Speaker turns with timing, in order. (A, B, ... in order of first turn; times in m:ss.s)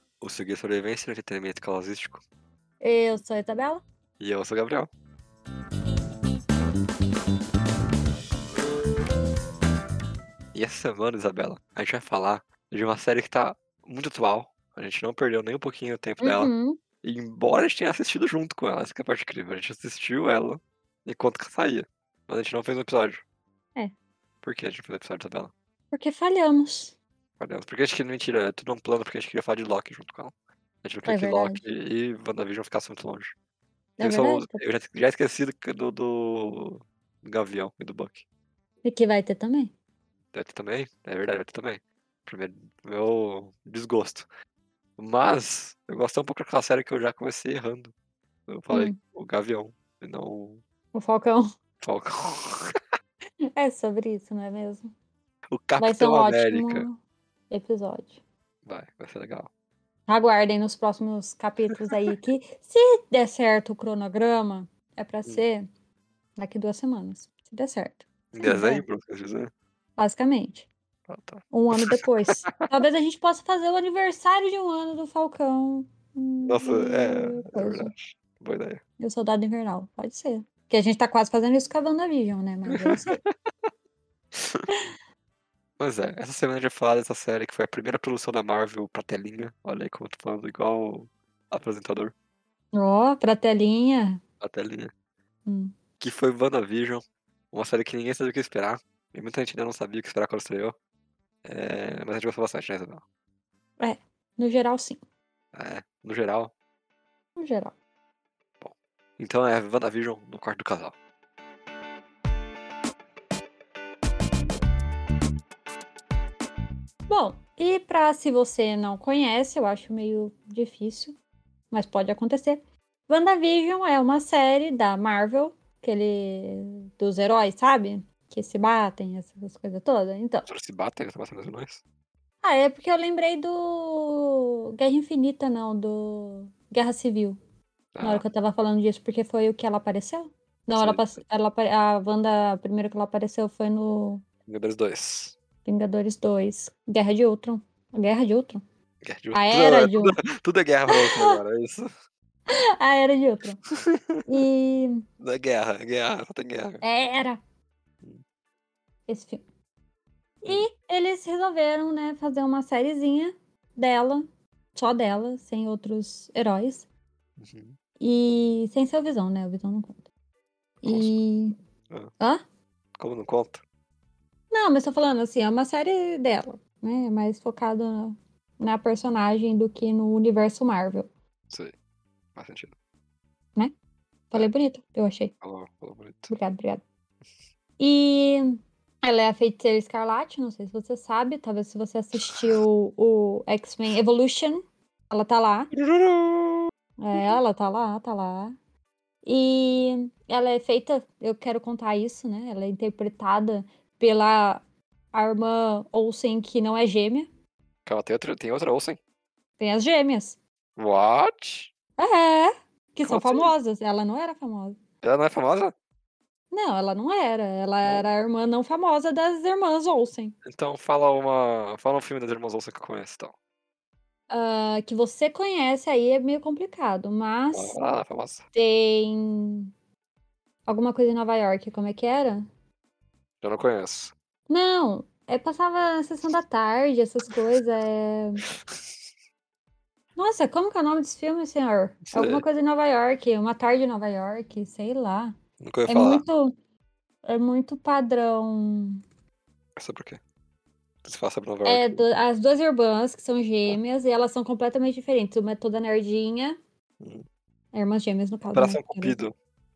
0:00.2-0:02.2 A
0:02.8-0:03.8 B
0:04.2-0:04.9 A
0:10.5-0:16.5 A
0:16.2-0:16.8 B
0:17.0-0:23.2 A
0:24.4-0:25.5 A
0:25.9-0:26.9 B
0:27.4-0:33.3 A
0:31.0-0:31.6 B
0:34.0-0:34.6 B
0:34.0-0:38.2 A
0:38.8-0:39.7 B
0:40.3-0:44.3 A
0:45.0-0:47.9 A
0:48.5-0:50.6 A
0:48.7-0:49.0 B
0:50.9-0:51.4 B
0:51.8-0:52.8 A
0:53.6-0:54.9 B
0:55.5-0:56.9 A
0:55.8-0:57.0 B
0:57.5-0:58.2 B
0:58.6-0:59.5 A
1:00.1-1:05.6 B
1:06.4-1:08.8 B
1:08.3-1:09.5 A
1:10.0-1:10.7 B
1:11.1-1:12.6 A
1:11.5-1:17.9 B
1:16.4-1:18.8 A
1:19.0-1:23.2 B
1:22.7-1:23.3 A
1:24.3-1:24.6 A
1:25.8-1:32.1 A
1:32.7-1:34.2 B
1:34.4-1:34.9 A
1:35.4-1:35.8 B
1:36.0-1:40.8 A
1:41.4-1:43.0 A
1:43.8-1:45.0 B
1:45.5-1:46.5 A
1:47.4-1:47.7 B
1:48.6-1:50.9 A
1:57.1-2:01.2 B
2:01.7-2:10.5 B
2:10.4-2:11.8 A
2:12.4-2:17.4 B
2:17.9-2:18.2 A
2:18.0-2:24.2 B
2:20.8-2:21.1 A
2:24.4-2:25.4 A
2:25.6-2:28.6 B
2:29.0-2:31.9 A
2:29.3-2:30.2 B
2:30.9-2:31.4 B
2:32.5-2:33.6 B
2:33.8-2:34.2 A
2:34.2-2:35.0 B
2:35.2-2:36.8 A
2:36.8-2:37.4 B
2:39.1-2:39.4 B
2:40.4-2:46.8 B
2:47.4-2:47.8 A
2:48.0-2:50.0 B
2:50.8-2:51.6 B
2:50.8-2:51.2 A
2:53.0-2:53.6 A
2:54.5-3:01.1 B
3:02.3-3:02.7 A
3:04.3-3:05.3 B
3:05.4-3:06.3 A
3:06.3-3:06.8 B
3:07.8-3:08.4 B
3:09.0-3:15.7 B
3:12.2-3:12.6 A
3:15.7-3:17.4 A
3:17.0-3:18.5 B
3:19.2-3:24.6 B
3:25.1-3:27.3 B
3:27.8-3:29.0 A
3:29.6-3:30.4 B
3:30.8-3:31.7 A
3:32.0-3:34.8 B
3:33.0-3:33.5 A
3:35.0-3:35.7 A
3:36.5-3:40.3 B
3:40.4-3:43.3 A
3:44.3-3:47.8 B
3:47.5-3:48.4 A
3:48.5-3:49.7 B
3:50.7-3:52.4 B
3:53.4-3:54.1 A
3:54.5-3:58.4 B
4:00.2-4:05.4 B
4:02.1-4:02.4 A
4:05.6-4:06.2 A
4:05.9-4:06.5 B
4:07.2-4:09.0 B
4:09.8-4:10.2 A
4:11.0-4:12.0 A
4:11.6-4:16.6 B
4:17.0-4:17.2 A
4:17.7-4:19.2 B
4:18.5-4:19.3 A